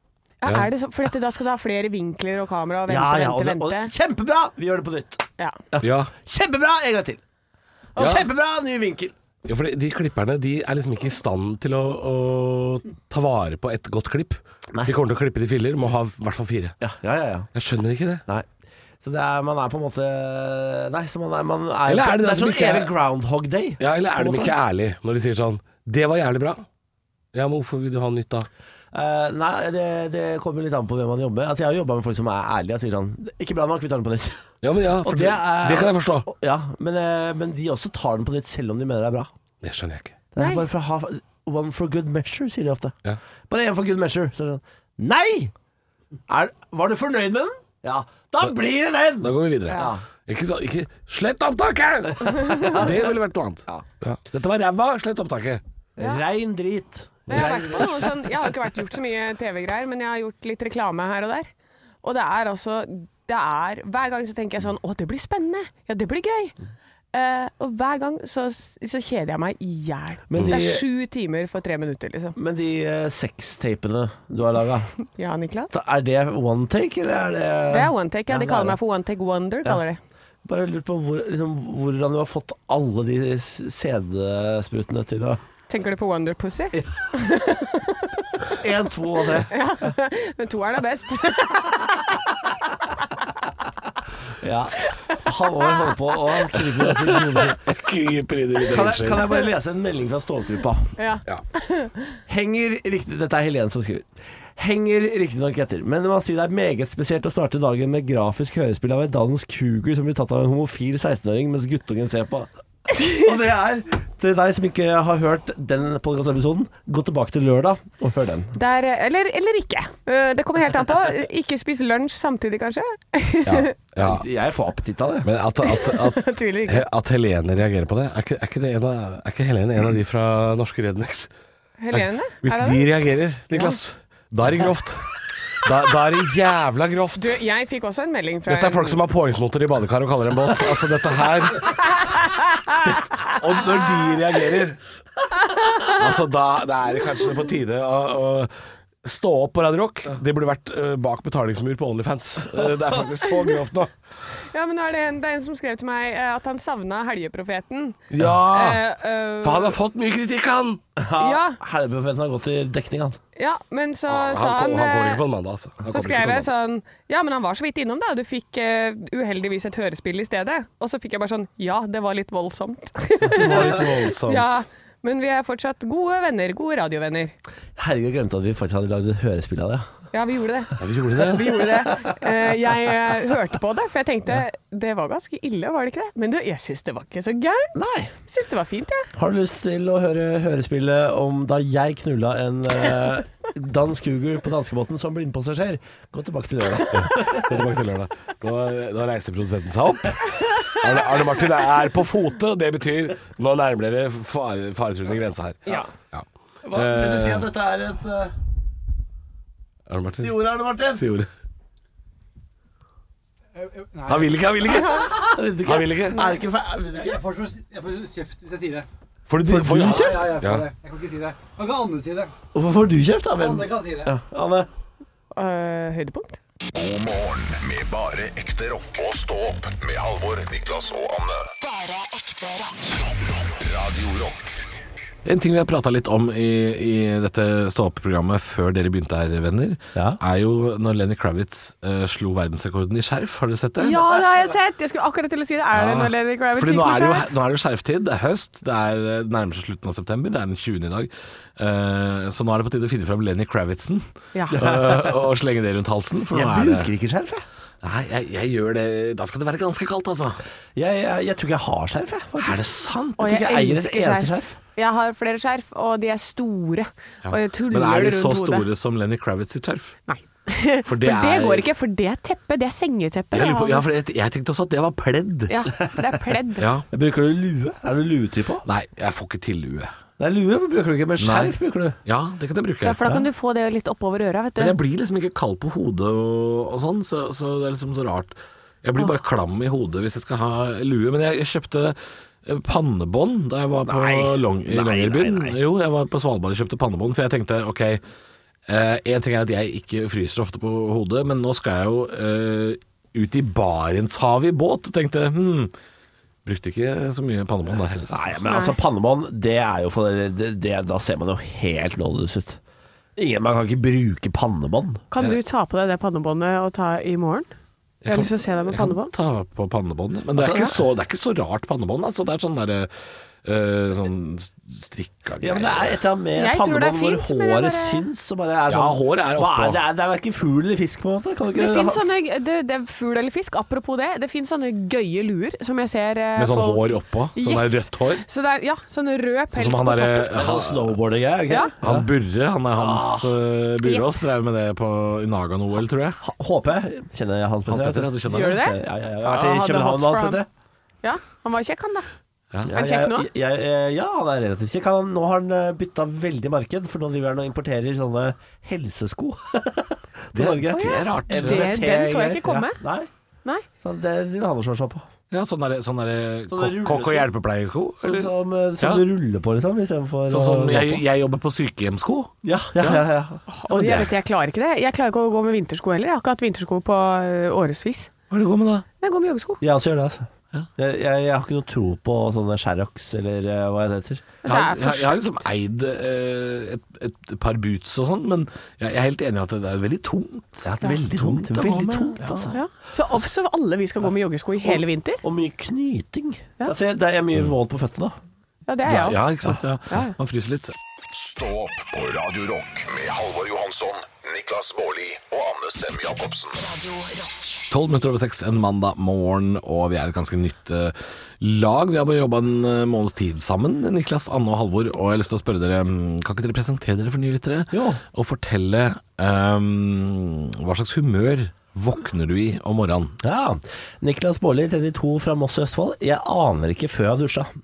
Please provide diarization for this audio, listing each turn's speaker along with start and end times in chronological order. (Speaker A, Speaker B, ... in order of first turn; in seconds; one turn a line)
Speaker A: 0.4-3.9
Speaker B: 2.9-7.2
Speaker C: 5.8-6.1
Speaker B: 8.0-9.1
Speaker C: 9.4-16.8
Speaker B: 16.8-17.5
Speaker C: 17.5-18.2
Speaker B: 19.0-24.5
Speaker C: 21.9-22.9
Speaker C: 23.8-26.6
Speaker C: 27.3-28.5
Speaker B: 28.9-34.4
Speaker C: 34.6-36.3
Speaker B: 35.0-39.3
Speaker C: 39.6-40.2
Speaker B: 40.3-43.0
Speaker A: 40.4-40.6
Speaker B: 43.5-45.5
Speaker B: 46.3-50.0
Speaker C: 49.2-55.6
Speaker B: 52.3-53.1
Speaker A: 52.4-52.7
Speaker B: 56.0-58.1
Speaker A: 57.3-61.5
Speaker A: 62.0-66.5
Speaker A: 67.1-72.3
Speaker B: 70.3-70.8
Speaker B: 72.3-74.9
Speaker A: 75.2-75.7
Speaker B: 75.7-78.8
Speaker A: 77.7-80.0
Speaker B: 80.4-85.4
Speaker A: 85.7-88.1
Speaker B: 88.6-89.5
Speaker A: 89.5-91.8
Speaker B: 94.4-97.7
Speaker C: 97.6-99.4
Speaker B: 98.6-100.9
Speaker A: 101.0-102.2
Speaker B: 102.3-118.5
Speaker A: 118.5-123.7
Speaker C: 123.4-124.2
Speaker B: 124.0-125.3
Speaker C: 125.2-131.3
Speaker A: 125.6-126.8
Speaker A: 131.8-132.8
Speaker C: 131.9-135.0
Speaker A: 133.5-133.8
Speaker C: 135.6-137.4
Speaker A: 137.2-139.0
Speaker C: 138.4-142.1
Speaker C: 142.8-144.8
Speaker A: 145.5-145.9
Speaker C: 145.8-148.5
Speaker C: 149.0-153.9
Speaker A: 153.2-153.5
Speaker A: 154.5-159.8
Speaker C: 158.1-158.8
Speaker C: 159.4-160.8
Speaker B: 161.0-163.2
Speaker A: 161.2-161.6
Speaker A: 163.3-165.2
Speaker C: 164.1-166.5
Speaker A: 165.9-177.3
Speaker C: 173.3-174.5
Speaker B: 173.4-173.8
Speaker B: 177.8-179.9
Speaker A: 180.1-187.7
Speaker C: 180.8-181.7
Speaker B: 187.7-188.1
Speaker A: 188.3-189.1
Speaker B: 189.1-197.6
Speaker C: 196.9-207.5
Speaker B: 206.6-208.3
Speaker C: 209.9-211.3
Speaker B: 210.2-211.0
Speaker D: 213.6-214.4
Speaker C: 214.1-216.2
Speaker B: 215.2-217.2
Speaker D: 216.9-218.8
Speaker C: 219.3-220.7
Speaker B: 219.4-220.4
Speaker D: 219.7-222.3
Speaker B: 222.5-224.7
Speaker D: 223.4-224.1
Speaker A: 225.3-226.4
Speaker E: 226.7-231.5
Speaker F: 231.6-232.9
Speaker E: 233.4-234.5
Speaker C: 235.2-244.0
Speaker B: 239.9-240.2
Speaker A: 243.8-247.3
Speaker C: 245.7-256.9
Speaker B: 254.5-255.2
Speaker B: 256.3-257.4
Speaker C: 257.8-260.4
Speaker B: 260.8-264.6
Speaker C: 262.4-263.3
Speaker A: 263.2-268.6
Speaker C: 267.2-269.9
Speaker A: 270.1-273.8
Speaker C: 270.9-271.7
Speaker C: 273.3-275.5
Speaker A: 275.5-276.7
Speaker C: 276.6-276.9
Speaker B: 276.9-278.6
Speaker C: 278.6-279.9
Speaker B: 280.2-282.0
Speaker C: 281.2-283.2
Speaker A: 282.8-284.7
Speaker C: 284.6-298.0
Speaker B: 293.9-295.6
Speaker C: 298.7-305.7
Speaker C: 306.4-308.4
Speaker B: 308.1-312.6
Speaker A: 308.5-308.8
Speaker B: 313.1-315.0
Speaker A: 315.1-317.5
Speaker C: 318.0-322.9
Speaker A: 318.1-319.1
Speaker B: 320.3-320.8
Speaker C: 323.4-326.0
Speaker B: 325.4-332.1
Speaker A: 326.4-328.0
Speaker C: 328.7-329.8
Speaker A: 331.5-340.3
Speaker C: 336.4-338.2
Speaker C: 339.5-341.0
Speaker B: 340.3-342.1
Speaker C: 341.8-346.2
Speaker B: 342.7-343.4
Speaker B: 346.2-350.5
Speaker C: 347.7-348.6
Speaker A: 348.2-350.4
Speaker A: 351.0-352.1
Speaker B: 352.6-363.1
Speaker A: 352.7-353.3
Speaker C: 360.3-361.7
Speaker A: 360.7-362.8
Speaker B: 363.8-365.1
Speaker C: 365.3-369.0
Speaker B: 366.5-367.3
Speaker B: 368.0-371.0
Speaker C: 370.3-373.0
Speaker B: 372.4-373.4
Speaker A: 373.5-378.1
Speaker C: 373.7-374.1
Speaker C: 378.3-378.9
Speaker A: 379.0-379.6
Speaker B: 379.6-384.4
Speaker A: 384.4-385.4
Speaker C: 384.4-392.5
Speaker B: 390.6-392.6
Speaker A: 392.3-395.2
Speaker B: 394.6-398.2
Speaker A: 398.7-399.2
Speaker C: 398.8-400.7
Speaker E: 401.1-406.6
Speaker F: 406.7-407.3
Speaker C: 407.7-423.1
Speaker B: 417.7-418.0
Speaker B: 423.2-427.5